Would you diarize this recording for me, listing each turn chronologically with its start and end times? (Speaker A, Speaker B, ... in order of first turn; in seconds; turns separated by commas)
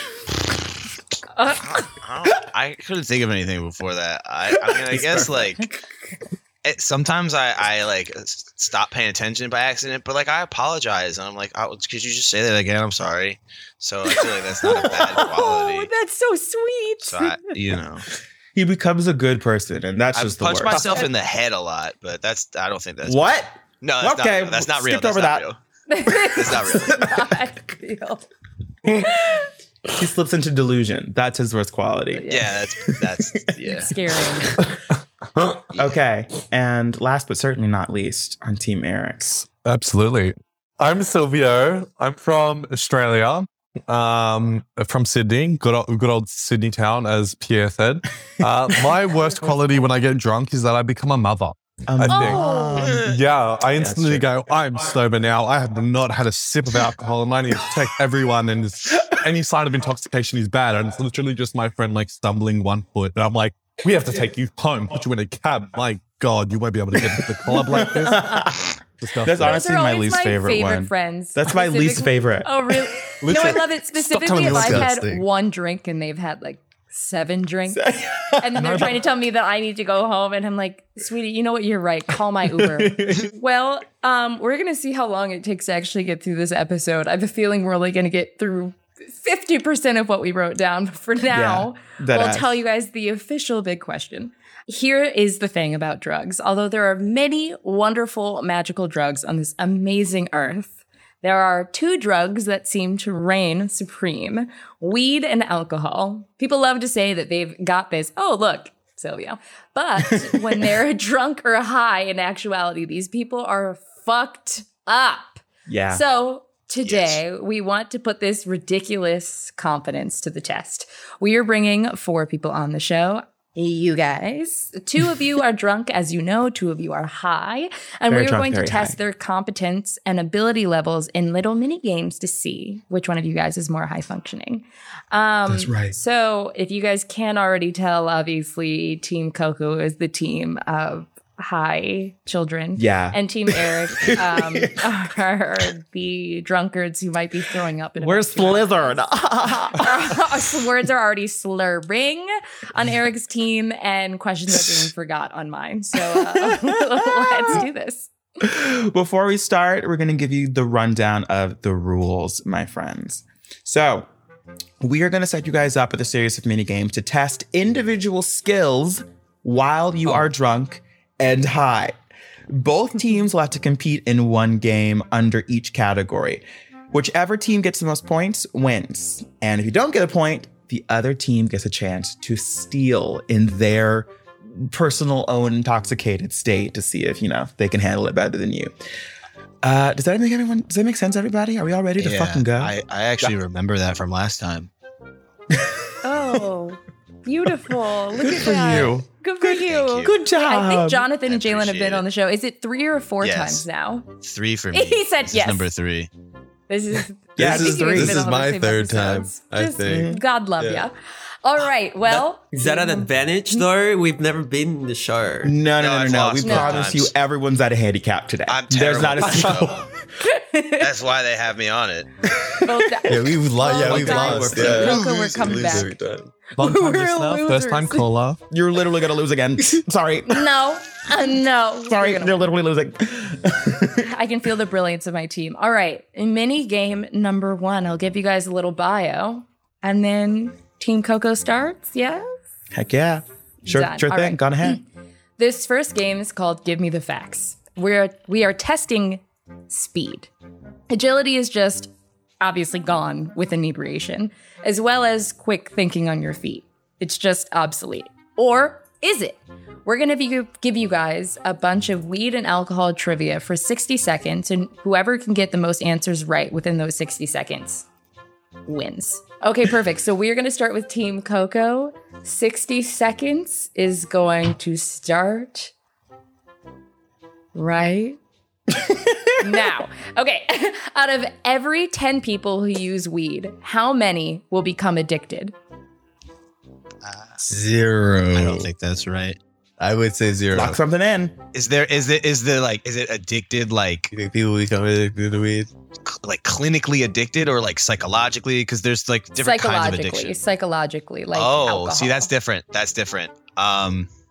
Speaker A: 1.4-1.9, Speaker B: 1.6-5.7, Speaker C: 4.7-5.4, Speaker B: 6.6-15.9, Speaker A: 14.1-17.5, Speaker B: 17.0-18.1, Speaker C: 18.6-21.0, Speaker B: 20.1-25.6, Speaker A: 20.7-21.1, Speaker C: 23.1-25.4, Speaker A: 25.9-28.2, Speaker B: 26.3-27.0, Speaker A: 28.9-29.5, Speaker C: 30.0-32.3, Speaker A: 32.1-32.6, Speaker B: 32.3-33.9, Speaker A: 33.7-34.6, Speaker C: 35.7-39.5, Speaker D: 39.6-52.4, Speaker C: 51.9-53.1, Speaker A: 52.1-53.0, Speaker D: 53.0-68.4, Speaker C: 53.8-54.3, Speaker C: 67.4-73.0, Speaker D: 69.0-69.6, Speaker A: 69.4-149.0, Speaker D: 73.2-73.6, Speaker E: 74.0-75.2, Speaker C: 77.7-79.0, Speaker C: 82.5-83.3, Speaker C: 91.3-92.6, Speaker C: 115.7-116.0, Speaker B: 116.8-117.2, Speaker C: 128.1-129.0, Speaker C: 135.5-135.9, Speaker C: 142.8-144.8, Speaker C: 148.0-150.2, Speaker A: 149.7-158.1, Speaker C: 156.2-157.6, Speaker C: 158.4-164.1, Speaker C: 164.8-172.0, Speaker C: 172.5-188.7, Speaker C: 189.6-193.2, Speaker B: 192.0-194.7, Speaker A: 196.0-204.1, Speaker C: 198.2-199.0, Speaker D: 198.5-198.9, Speaker B: 198.7-198.9, Speaker B: 199.4-200.2, Speaker C: 200.0-201.1, Speaker B: 201.2-202.1, Speaker B: 203.2-203.7, Speaker B: 204.2-206.1, Speaker A: 204.7-205.7, Speaker A: 206.7-213.6, Speaker E: 207.4-210.9, Speaker C: 207.4-208.2, Speaker C: 209.9-210.2, Speaker F: 212.5-215.6, Speaker C: 215.4-219.9, Speaker B: 215.8-217.1, Speaker A: 216.4-216.9, Speaker B: 218.5-219.9, Speaker A: 220.2-220.9, Speaker B: 220.8-222.1, Speaker A: 222.6-225.9, Speaker E: 223.1-226.5, Speaker D: 226.6-228.4, Speaker A: 226.6-228.0, Speaker C: 228.5-230.5, Speaker A: 230.3-232.4, Speaker C: 231.9-234.1, Speaker A: 234.0-242.3, Speaker C: 242.7-244.8, Speaker A: 243.6-244.8, Speaker A: 245.4-250.3, Speaker A: 250.9-267.9, Speaker A: 268.7-275.7, Speaker A: 277.6-278.2, Speaker A: 279.4-285.5, Speaker B: 287.0-287.6, Speaker E: 287.5-288.7, Speaker B: 288.3-289.4, Speaker E: 289.8-290.8, Speaker C: 290.5-291.4, Speaker B: 291.5-294.1, Speaker E: 294.1-295.7, Speaker B: 296.1-300.4, Speaker A: 299.4-302.3, Speaker B: 301.3-304.1